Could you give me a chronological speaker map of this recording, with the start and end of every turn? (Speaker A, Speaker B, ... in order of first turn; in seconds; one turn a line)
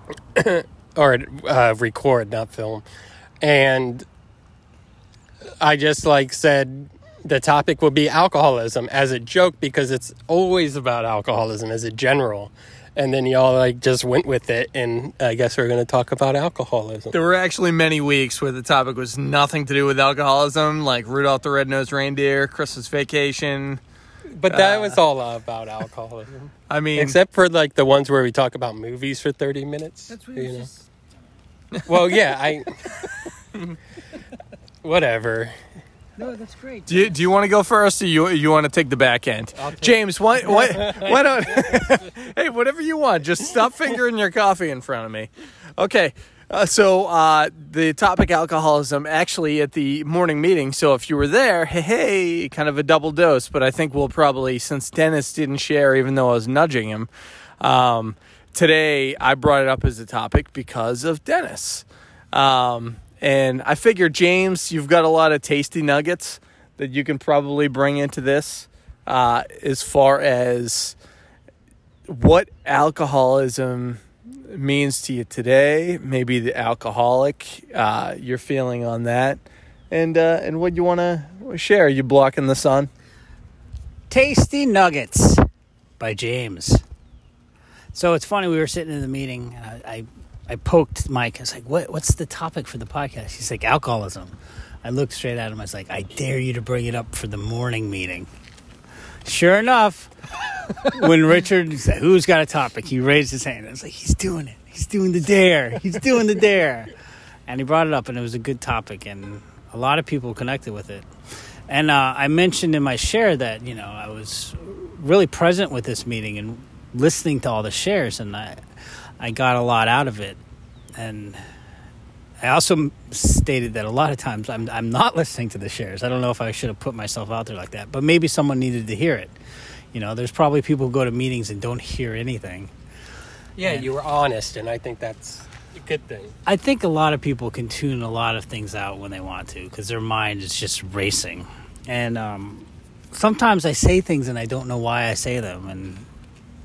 Speaker A: 0.3-2.8
Speaker A: 3.4-4.0
Speaker A: 5.6-17.1
Speaker B: 17.1-23.8
Speaker A: 24.3-30.7
Speaker B: 24.5-25.0
Speaker B: 26.7-27.2
Speaker C: 30.1-30.7
Speaker A: 31.9-32.9
Speaker A: 34.8-35.5
Speaker C: 36.2-37.1
Speaker B: 36.9-57.1
Speaker A: 39.6-41.8
Speaker B: 57.6-70.9
Speaker B: 72.1-82.9
Speaker C: 84.1-85.5
Speaker C: 86.0-86.8
Speaker C: 87.9-98.3
Speaker C: 99.2-100.1
Speaker C: 100.7-106.9
Speaker C: 107.5-111.1
Speaker C: 111.7-118.6
Speaker C: 119.2-120.4
Speaker C: 121.0-121.4
Speaker C: 122.4-129.3
Speaker C: 129.9-132.7
Speaker A: 133.6-136.3
Speaker C: 136.4-146.1